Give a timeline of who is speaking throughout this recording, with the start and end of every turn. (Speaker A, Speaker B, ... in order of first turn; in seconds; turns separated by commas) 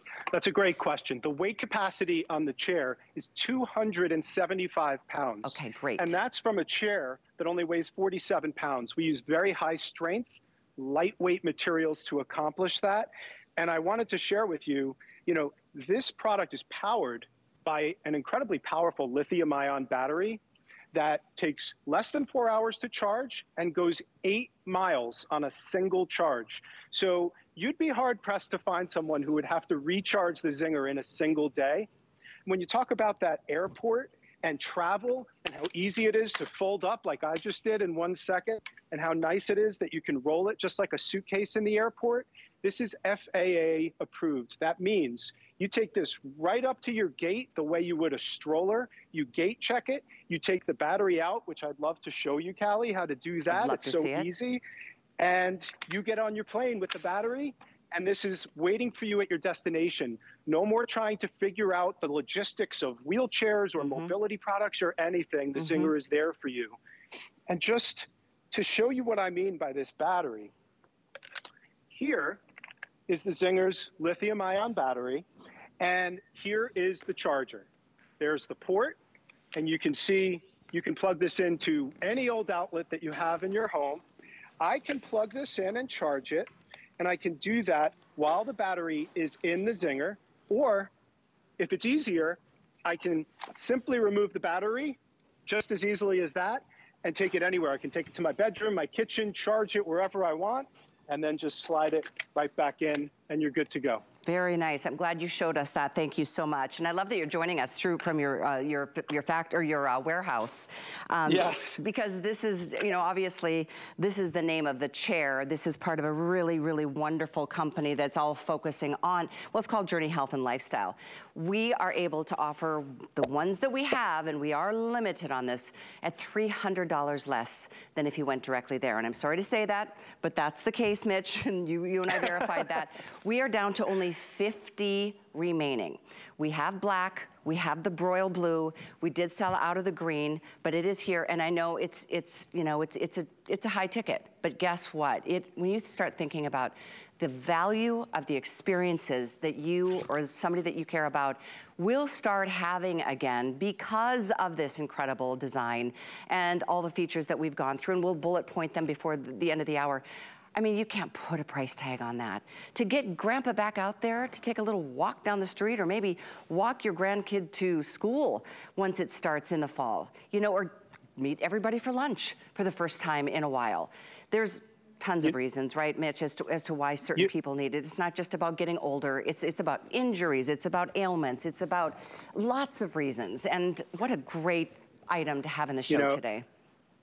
Speaker A: 0.3-20.4, Speaker B: 5.4-6.2, Speaker A: 20.9-31.9, Speaker A: 32.5-54.6, Speaker B: 53.5-54.3, Speaker A: 55.2-66.8, Speaker B: 63.8-64.1, Speaker B: 65.6-65.9, Speaker A: 67.5-70.5, Speaker A: 71.9-72.4, Speaker A: 73.1-75.3, Speaker A: 75.8-77.7, Speaker A: 78.2-79.0, Speaker A: 79.5-84.0, Speaker A: 84.6-90.9, Speaker A: 91.6-104.0, Speaker B: 104.2-186.4, Speaker A: 111.3-111.8, Speaker A: 185.9-186.2